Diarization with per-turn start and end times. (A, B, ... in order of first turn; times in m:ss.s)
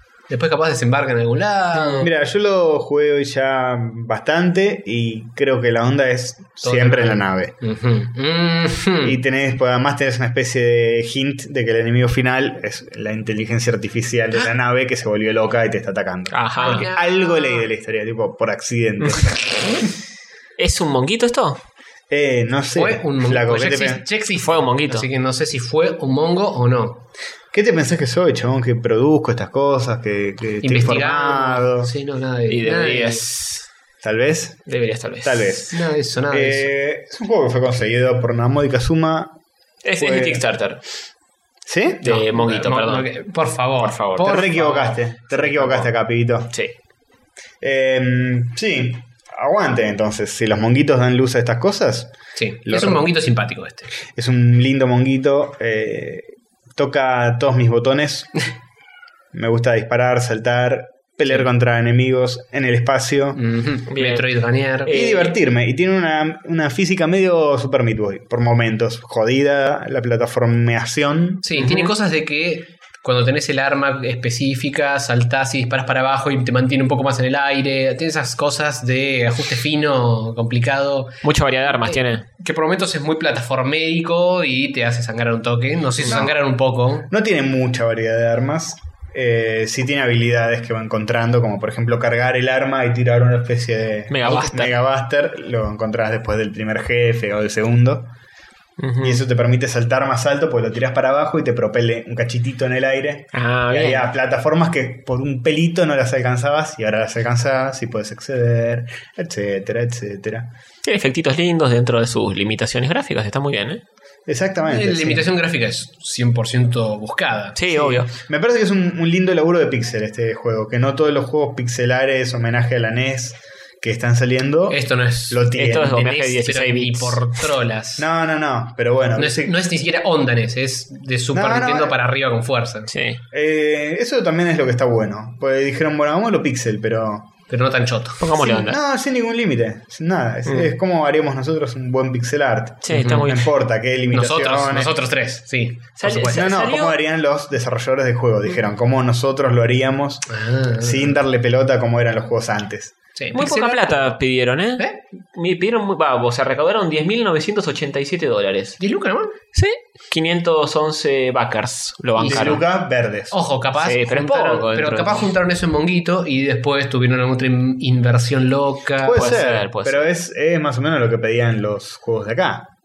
0:00.3-0:02.1 A
0:01.8-0:02.0 B
0:02.0-0:07.5 C
0:06.6-0:09.2 A
0:09.0-0:19.5 C
0:16.3-0:16.9 B
0:16.6-0:17.7 A
0:19.0-0:19.3 B
0:20.6-0:21.6 B
0:22.1-0:24.0 C
0:22.8-0:27.0 A
0:24.4-0:25.1 B
0:27.5-0:31.9 C
0:30.6-0:33.2 A
0:32.5-0:33.7 B
0:34.0-0:34.6 C
0:34.7-0:35.7 B
0:35.2-0:35.8 C
0:35.7-0:36.7 A
0:36.3-0:39.4 C
0:39.8-0:40.8 B
0:40.0-0:40.4 C
0:41.7-0:42.2 C
0:42.0-0:43.1 B
0:42.1-0:45.9 A
0:43.8-0:44.4 B
0:44.2-0:46.6 C
0:47.6-0:52.1 C
0:52.4-0:53.9 A
0:52.6-0:53.1 C
0:54.1-0:58.4 C
0:59.3-1:03.4 C
1:03.4-1:04.9 A
1:03.9-1:04.3 B
1:04.8-1:05.4 B
1:04.9-1:11.4 C
1:11.4-1:27.1 A
1:11.6-1:11.9 B
1:21.2-1:22.2 B
1:26.0-1:26.4 C
1:27.1-1:38.1 C
1:34.1-1:34.8 B
1:34.2-1:34.5 A
1:38.8-1:39.2 B
1:39.0-1:50.5 C
1:43.3-1:44.1 B
1:50.8-1:53.8 B
1:54.3-1:55.3 C
1:54.7-1:57.6 A
1:57.6-1:58.1 B
1:57.7-2:06.0 C
2:04.7-2:08.1 A
2:05.6-2:07.3 B
2:08.0-2:09.6 C
2:09.2-2:12.9 A
2:11.3-2:12.0 C
2:12.9-2:13.2 B
2:13.3-2:17.3 C
2:17.5-2:18.5 A
2:18.2-2:18.8 B
2:18.4-2:24.9 C
2:20.5-2:20.7 B
2:22.8-2:23.5 B
2:22.9-2:23.3 A
2:24.1-2:26.4 A
2:26.0-2:27.0 B
2:26.2-2:30.2 C
2:30.3-2:31.2 A
2:30.8-2:32.9 C
2:33.2-2:34.1 A
2:33.3-2:38.8 B
2:38.8-2:39.3 A
2:39.5-2:42.6 B
2:42.2-2:42.6 A
2:42.3-2:43.4 C
2:43.3-2:49.3 A
2:43.8-2:45.3 B
2:49.0-2:52.7 C
2:49.1-2:50.1 B